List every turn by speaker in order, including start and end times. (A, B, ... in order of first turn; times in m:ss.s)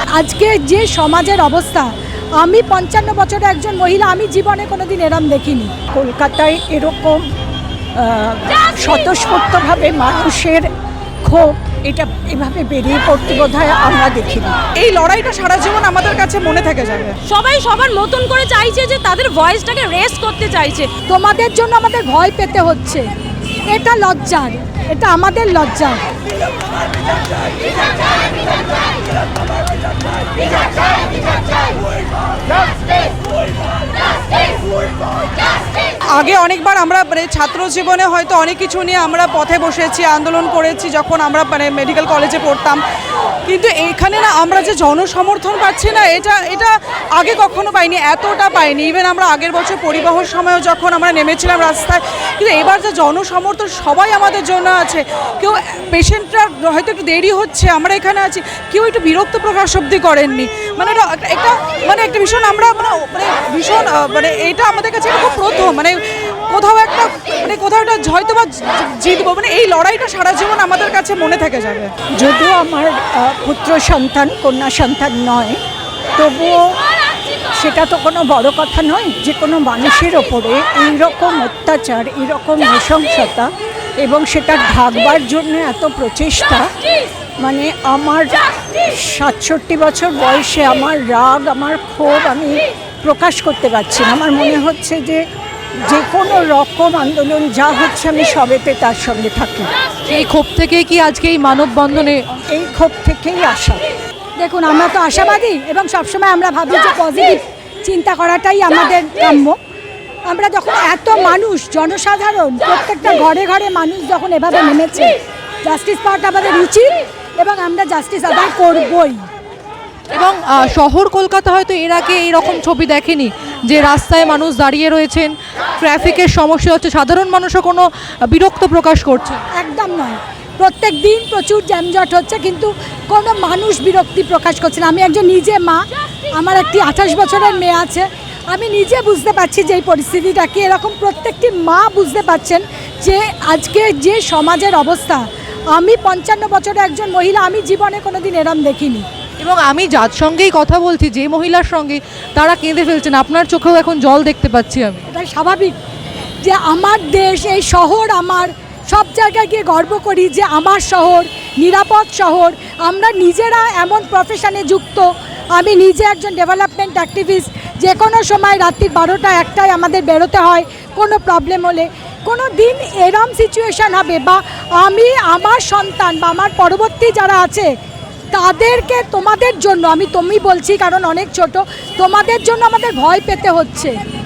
0:00.2-0:05.7 A
0:05.9-0:07.2 B
0:08.0-0:10.7 B
0:11.2-0:14.5 B
0:14.8-0:17.2 C
0:17.3-0:20.9 D
0:21.1-0:23.0 A
0:23.7-0:26.0 A
0:36.1-0:42.8 C
0:43.5-1:11.9 C
1:12.2-1:15.6 B
1:16.2-1:16.7 B
1:17.6-1:26.7 B
1:27.4-1:35.2 B
1:35.8-1:39.7 B
1:40.0-1:42.2 E
1:42.5-1:43.8 B
1:44.4-1:49.6 A
1:50.2-1:55.1 A
1:55.6-1:59.3 A
2:00.1-2:09.4 E
2:09.5-2:25.2 A
2:25.7-2:29.0 A
2:29.4-2:35.0 E
2:35.1-2:35.7 A
2:36.4-2:57.7 A
2:58.3-3:04.0 A